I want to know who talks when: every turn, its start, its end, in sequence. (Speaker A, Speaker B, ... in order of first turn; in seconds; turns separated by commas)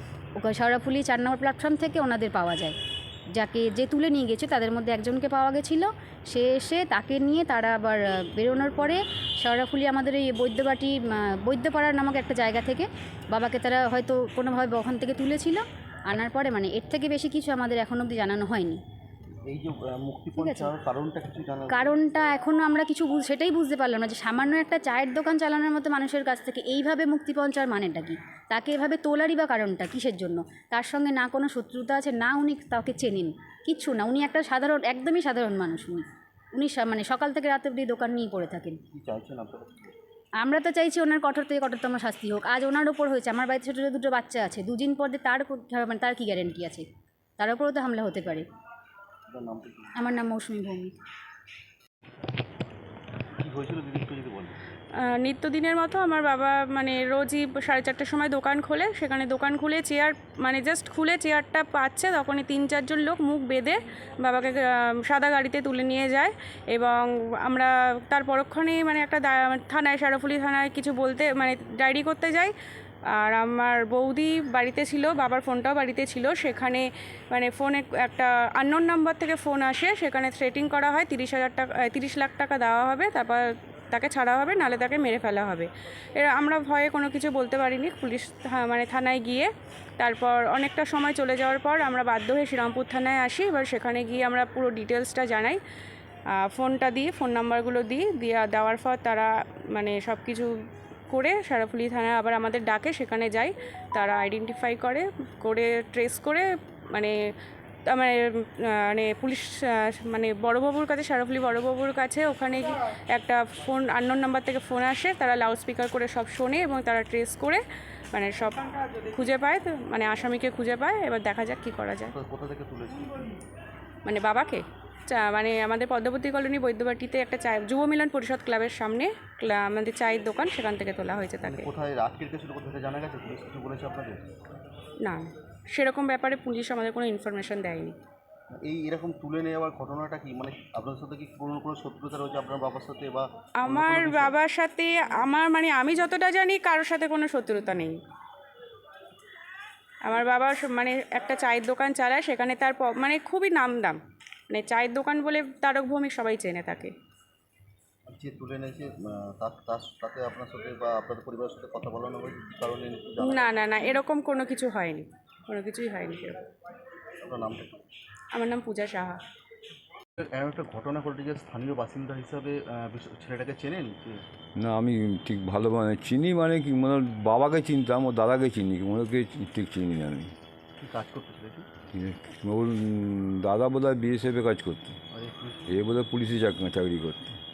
Speaker A: 0.4-2.8, Speaker A: 3.4-18.8, Speaker B: 19.4-21.9, Speaker A: 20.4-20.7, Speaker A: 21.7-38.8, Speaker B: 38.9-39.9, Speaker A: 40.4-46.8, Speaker A: 47.4-48.5, Speaker B: 49.3-49.9, Speaker A: 50.0-51.0, Speaker B: 53.4-54.6, Speaker C: 55.0-72.5, Speaker C: 73.1-95.6, Speaker C: 96.5-100.5, Speaker C: 101.1-107.2, Speaker C: 107.9-122.1, Speaker B: 122.1-123.3, Speaker C: 124.0-131.7, Speaker B: 131.4-134.2, Speaker C: 135.0-137.9, Speaker B: 138.6-144.4, Speaker C: 143.6-148.0, Speaker C: 150.0-154.0, Speaker C: 154.5-156.9, Speaker B: 158.1-163.5, Speaker C: 163.2-166.4, Speaker B: 167.2-167.8, Speaker C: 168.3-169.2, Speaker B: 170.2-174.2, Speaker D: 174.6-180.3, Speaker B: 180.8-181.7, Speaker D: 181.9-185.0, Speaker B: 185.1-185.7, Speaker D: 185.7-187.4